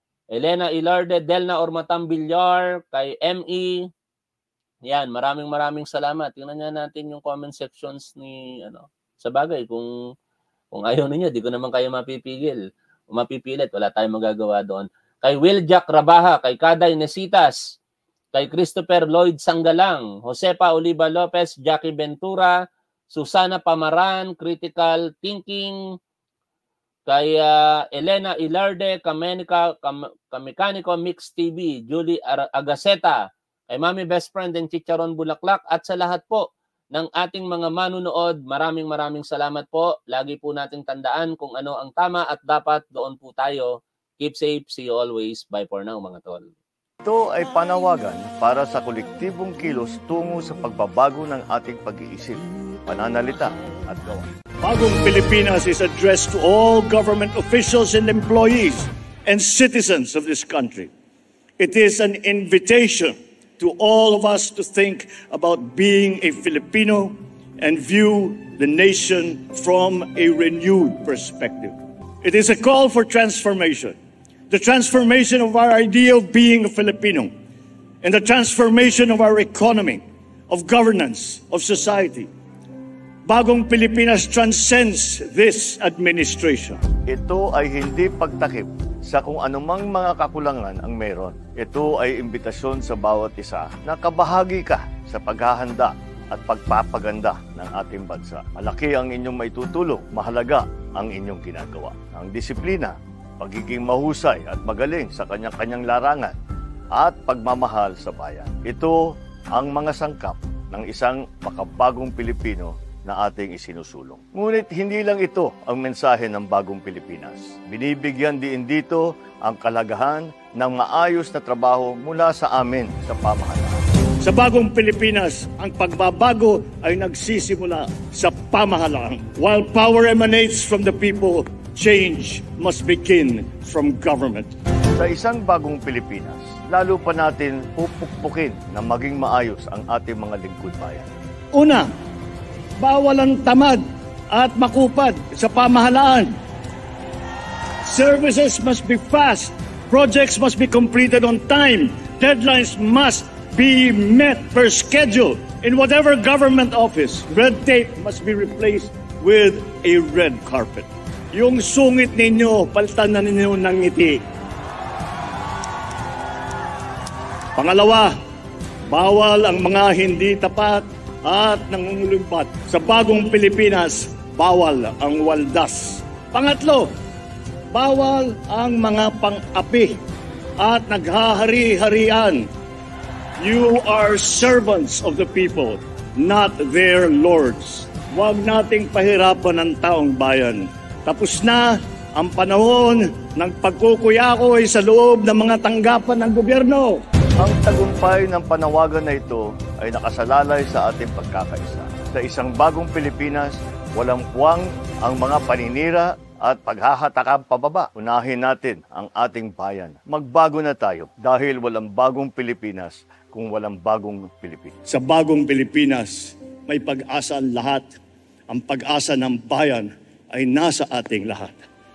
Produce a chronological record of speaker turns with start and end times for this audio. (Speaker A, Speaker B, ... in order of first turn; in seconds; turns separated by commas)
Speaker A: 0.3-3.9, Speaker A: 4.9-9.9, Speaker A: 10.7-17.8, Speaker A: 18.3-25.8, Speaker A: 27.1-46.5, Speaker B: 47.0-54.3, Speaker C: 54.6-60.9, Speaker C: 61.6-74.0, Speaker C: 74.5-77.3, Speaker C: 78.0-82.3, Speaker C: 83.3-86.8, Speaker B: 87.1-106.3, Speaker B: 107.0-123.8, Speaker C: 124.2-134.5, Speaker B: 134.9-141.1, Speaker C: 141.6-141.9, Speaker C: 142.8-146.3, Speaker C: 147.8-164.2, Speaker C: 167.6-168.1, Speaker C: 168.9-176.9, Speaker C: 177.7-180.0, Speaker C: 180.6-182.5, Speaker C: 183.4-196.9, Speaker B: 197.4-214.8, Speaker C: 214.9-218.0, Speaker C: 218.5-221.7